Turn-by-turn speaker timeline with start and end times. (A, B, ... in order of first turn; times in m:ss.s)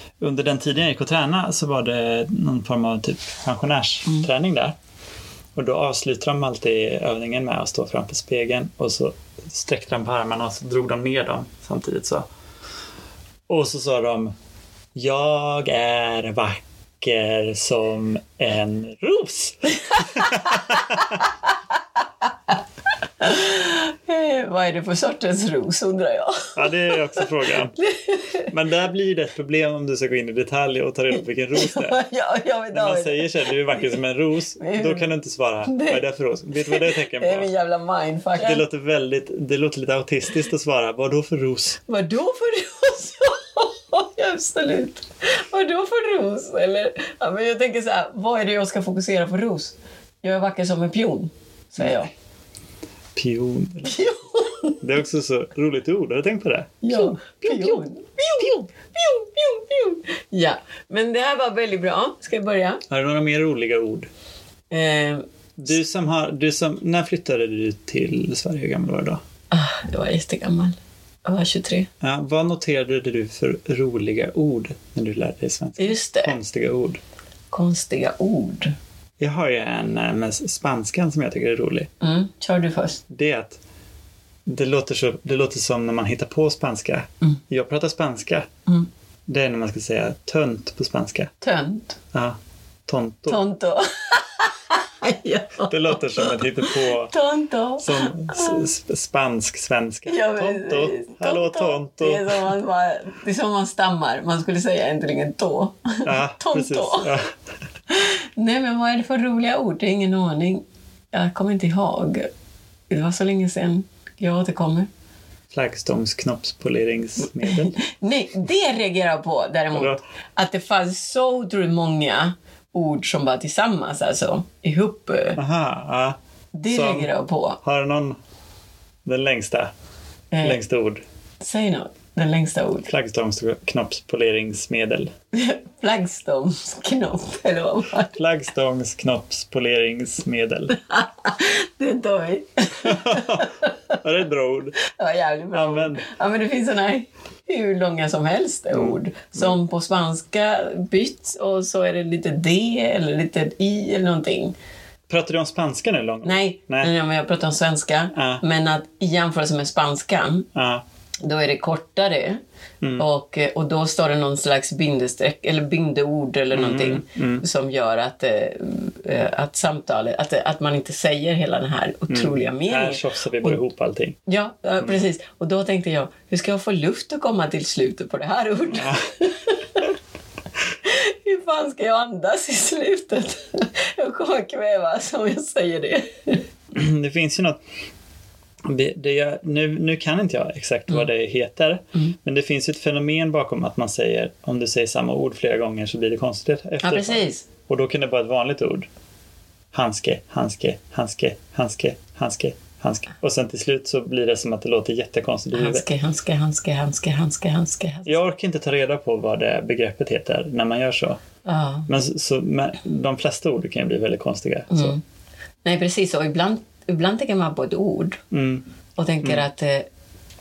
0:00.2-0:04.8 A
0:05.6-0:12.3 A
0:13.5-0:14.3 A
0:14.9-0:21.2 A
0:20.1-0:20.8 B
0:23.2-0:28.5 B
0:26.5-0:27.8 A
0:28.5-0:32.0 A
0:31.1-0:34.0 B
0:32.7-0:37.5 A
0:34.6-0:35.1 B
0:35.6-0:36.0 B
0:36.6-0:38.6 B
0:38.4-0:41.8 A
0:41.9-0:52.1 B
0:53.2-0:54.1 A
0:53.8-0:54.8 B
0:54.8-0:57.8 A
0:56.8-1:02.8 B
1:02.9-1:04.1 A
1:04.7-1:05.2 B
1:05.6-1:09.2 A
1:09.5-1:11.9 B
1:12.0-1:17.0 A
1:15.8-1:16.3 B
1:17.5-1:18.7 B
1:19.2-1:21.9 A
1:22.0-1:23.0 B
1:23.1-1:23.6 A
1:24.5-1:28.6 A
1:29.3-1:31.3 A
1:31.4-1:32.0 B
1:32.9-1:33.4 A
1:33.3-1:38.7 B
1:35.6-1:37.1 A
1:37.8-1:42.5 A
1:40.1-1:47.1 B
1:46.0-1:47.3 A
1:47.9-1:52.3 B
1:52.9-1:54.9 B
1:55.5-1:57.8 A
1:57.4-2:05.4 B
1:59.7-2:00.0 A
2:05.3-2:06.2 A
2:06.5-2:07.6 B
2:06.7-2:08.2 A
2:09.0-2:09.7 A
2:10.3-2:10.6 B
2:10.4-2:11.0 A
2:11.4-2:12.9 B
2:12.9-2:15.1 A
2:15.3-2:18.1 B
2:18.1-2:20.8 A
2:20.7-2:23.7 B
2:22.8-2:24.8 A
2:24.8-2:34.5 B
2:25.5-2:26.1 A
2:28.7-2:29.5 A
2:35.1-2:36.9 A
2:36.2-2:40.5 B
2:38.1-2:38.4 A
2:40.5-2:40.8 A
2:41.2-2:42.4 B
2:43.0-2:53.6 B
2:46.5-2:47.4 A
2:52.1-2:54.2 A
2:54.3-2:59.8 B
2:58.7-2:59.0 A
3:00.8-3:06.4 B
3:06.7-3:07.6 A
3:08.6-3:18.9 A
3:16.8-3:17.4 B
3:19.7-3:25.8 A
3:25.5-3:28.1 B
3:28.0-3:31.2 A
3:31.4-3:31.9 B
3:31.9-3:35.0 A
3:34.7-3:35.0 B
3:35.6-3:38.2 B
3:38.3-3:38.6 A
3:39.0-3:39.9 B